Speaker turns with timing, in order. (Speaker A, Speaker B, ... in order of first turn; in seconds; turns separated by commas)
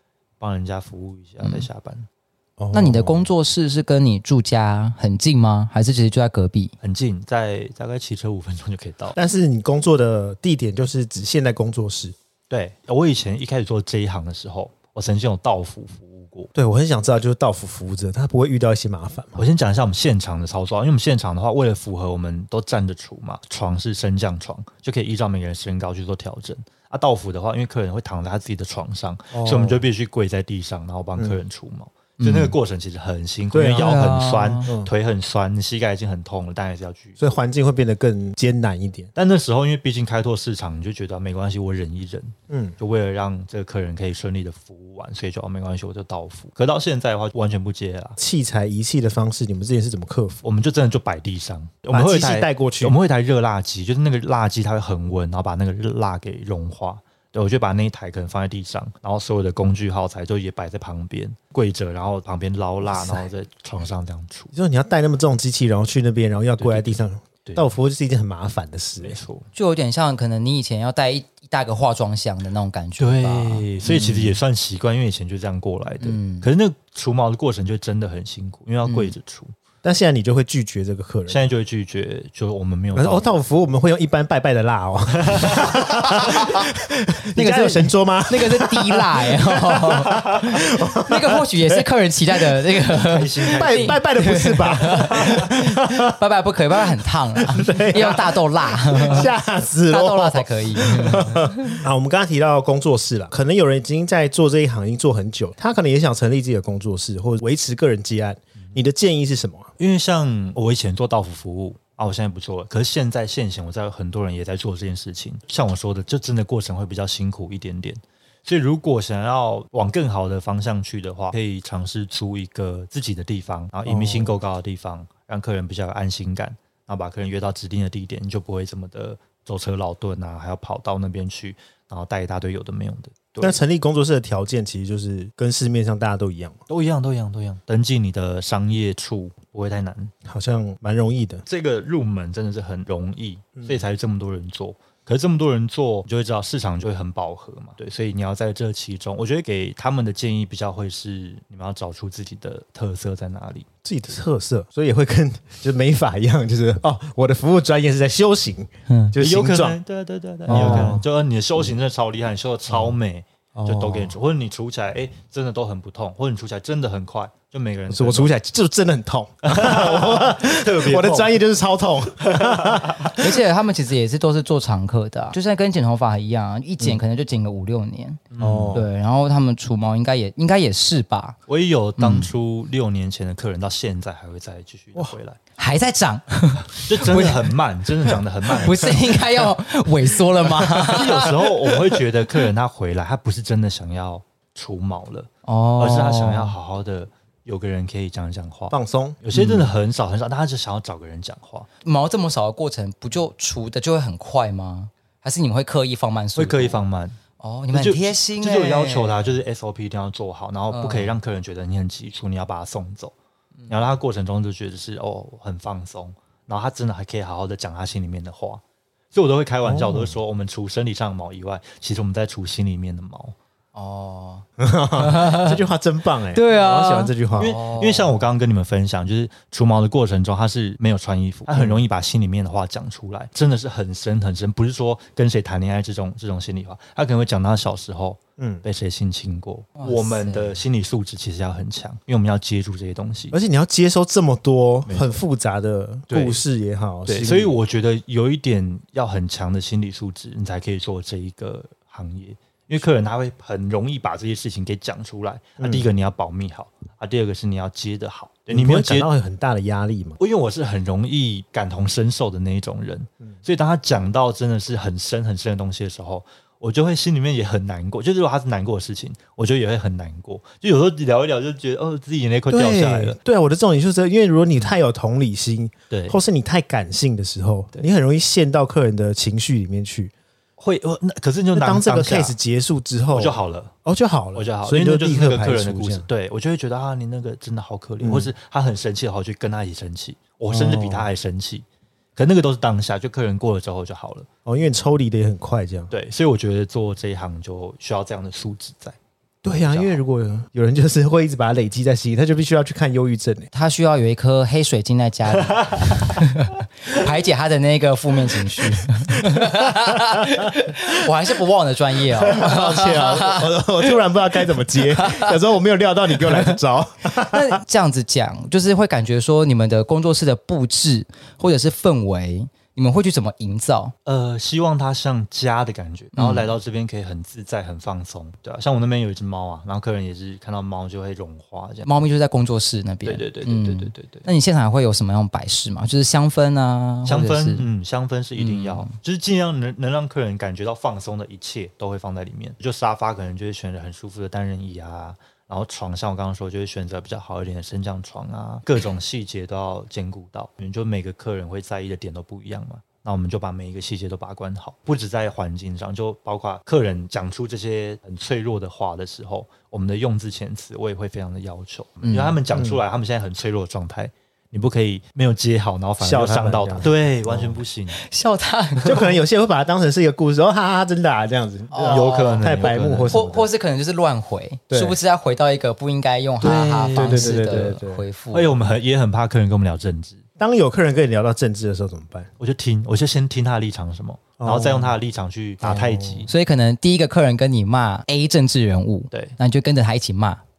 Speaker A: 0.4-2.1, Speaker B: 2.6-3.3, Speaker C: 2.7-6.7, Speaker A: 6.8-9.2, Speaker B: 9.1-12.1, Speaker A: 12.5-16.5, Speaker B: 16.5-19.4, Speaker A: 19.4-37.2, Speaker B: 29.3-29.8, Speaker C: 32.2-32.5, Speaker B: 33.5-34.0, Speaker C: 33.8-34.7, Speaker B: 37.2-39.1, Speaker A: 39.1-48.2, Speaker B: 42.5-42.7, Speaker B: 48.2-50.4, Speaker A: 50.4-64.5, Speaker B: 51.9-53.0, Speaker B: 63.0-63.2, Speaker B: 64.5-69.2, Speaker A: 66.6-67.7, Speaker A: 69.0-69.5, Speaker C: 69.5-74.4, Speaker A: 73.0-79.5, Speaker C: 76.0-76.5, Speaker C: 78.8-79.1, Speaker B: 79.8-81.4, Speaker A: 81.3-83.4, Speaker B: 82.9-91.8, Speaker A: 85.2-86.4, Speaker C: 87.3-99.3, Speaker A: 92.9-94.0, Speaker B: 93.5-96.1, Speaker B: 97.5-109.7, Speaker C: 99.9-101.8, Speaker A: 109.8-133.6, Speaker B: 123.9-124.3, Speaker B: 133.4-136.6, Speaker A: 136.7-140.1, Speaker B: 140.2-141.4, Speaker A: 141.4-153.7, Speaker B: 153.8-159.8, Speaker C: 158.9-159.1, Speaker A: 159.2-168.3, Speaker B: 160.5-161.0, Speaker C: 160.5-161.0, Speaker B: 163.5-164.1, Speaker B: 167.9-173.1, Speaker A: 169.4-171.4, Speaker A: 172.2-173.1, Speaker C: 173.2-178.2, Speaker A: 178.3-178.8, Speaker B: 178.4-178.8, Speaker C: 178.7-181.4, Speaker A: 181.5-185.4, Speaker C: 182.0-182.3, Speaker C: 185.6-187.5, Speaker A: 186.7-189.2, Speaker C: 188.6-191.3, Speaker A: 190.8-201.7, Speaker C: 195.4-196.6, Speaker B: 198.7-199.2, Speaker C: 199.3-199.7, Speaker C: 201.8-206.8, Speaker A: 206.3-207.2, Speaker C: 207.4-209.3, Speaker A: 207.7-213.1, Speaker C: 210.7-211.1, Speaker A: 213.7-218.6, Speaker A: 219.1-223.3, Speaker B: 219.7-220.1, Speaker C: 223.7-224.4, Speaker B: 224.6-227.6, Speaker C: 224.9-225.6, Speaker C: 226.3-228.2, Speaker A: 227.4-243.3, Speaker B: 231.5-231.8, Speaker B: 238.4-238.6, Speaker C: 239.8-240.6, Speaker B: 243.3-247.5, Speaker A: 244.8-245.2, Speaker A: 246.1-246.4, Speaker A: 247.1-259.1, Speaker B: 255.6-255.8, Speaker B: 258.5-260.2, Speaker A: 260.2-273.2, Speaker B: 272.5-280.1, Speaker A: 275.9-276.2, Speaker A: 280.6-282.3, Speaker B: 281.5-286.1, Speaker A: 283.1-283.7, Speaker A: 284.3-291.6, Speaker B: 288.0-288.3, Speaker B: 290.5-291.1, Speaker A: 292.1-294.3, Speaker B: 294.4-295.9, Speaker A: 295.9-300.0, Speaker B: 299.4-303.5, Speaker C: 303.5-313.9, Speaker B: 309.3-310.2, Speaker B: 312.2-317.6, Speaker C: 314.7-315.4, Speaker C: 317.2-323.9, Speaker A: 324.0-331.9, Speaker C: 326.1-326.5, Speaker C: 331.8-337.7, Speaker A: 333.0-334.3, Speaker A: 337.0-368.0, Speaker C: 338.4-338.9, Speaker C: 362.0-362.4, Speaker B: 362.5-362.8, Speaker B: 366.0-367.6, Speaker C: 367.9-369.1, Speaker B: 368.8-373.5, Speaker C: 371.7-372.5, Speaker A: 371.8-373.2, Speaker C: 373.1-378.5, Speaker B: 374.7-375.0, Speaker B: 376.4-378.0, Speaker A: 376.5-377.4, Speaker A: 378.3-380.2, Speaker B: 380.4-382.3, Speaker A: 382.4-386.3, Speaker B: 384.4-384.9, Speaker B: 385.6-386.2, Speaker C: 386.3-390.4, Speaker A: 389.1-389.4